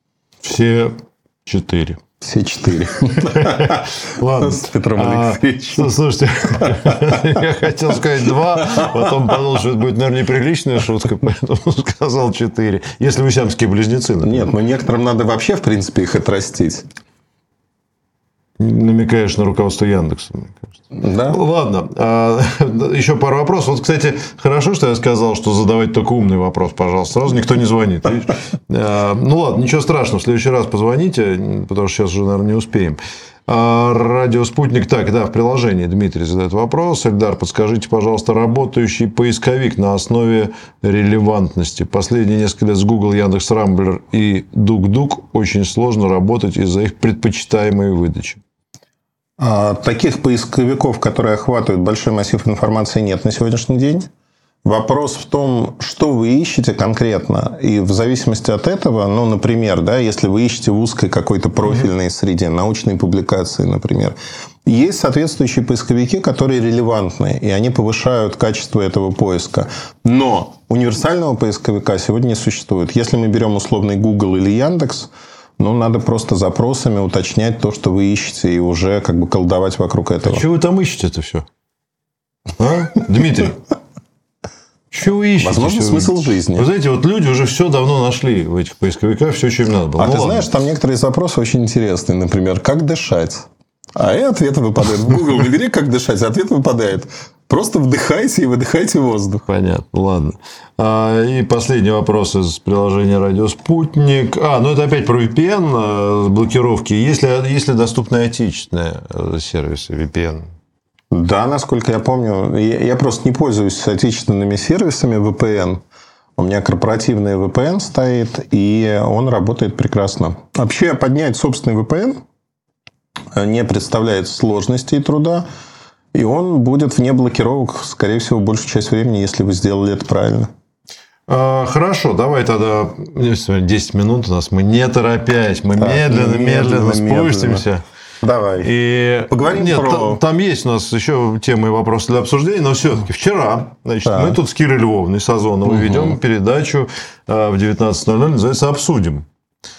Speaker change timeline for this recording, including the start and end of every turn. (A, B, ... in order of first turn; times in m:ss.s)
0:00.4-0:02.0 A
0:02.2-0:05.9 B
0:03.1-0:14.5 A
0:06.6-0:07.2 B
0:08.7-0:09.0 B
0:14.2-0:16.9 B
0:18.6-0:20.8 A
0:20.9-0:21.4 B
0:21.3-0:48.4 A
0:49.4-0:54.1 B
0:54.6-1:20.4 B
1:20.2-1:21.4 A
1:22.6-1:23.6 A
1:24.9-1:30.5 A
1:25.4-1:26.7 B
1:30.0-1:39.4 B
1:39.5-1:50.5 A
1:51.1-1:55.8 B
1:56.4-2:02.2 B
2:03.3-2:05.4 B
2:06.1-2:10.5 B
2:11.3-2:17.8 A
2:15.8-2:17.6 B
2:18.2-2:18.7 B
2:18.6-2:29.2 A
2:19.3-2:20.2 B
2:24.0-2:24.4 B
2:25.6-2:26.2 B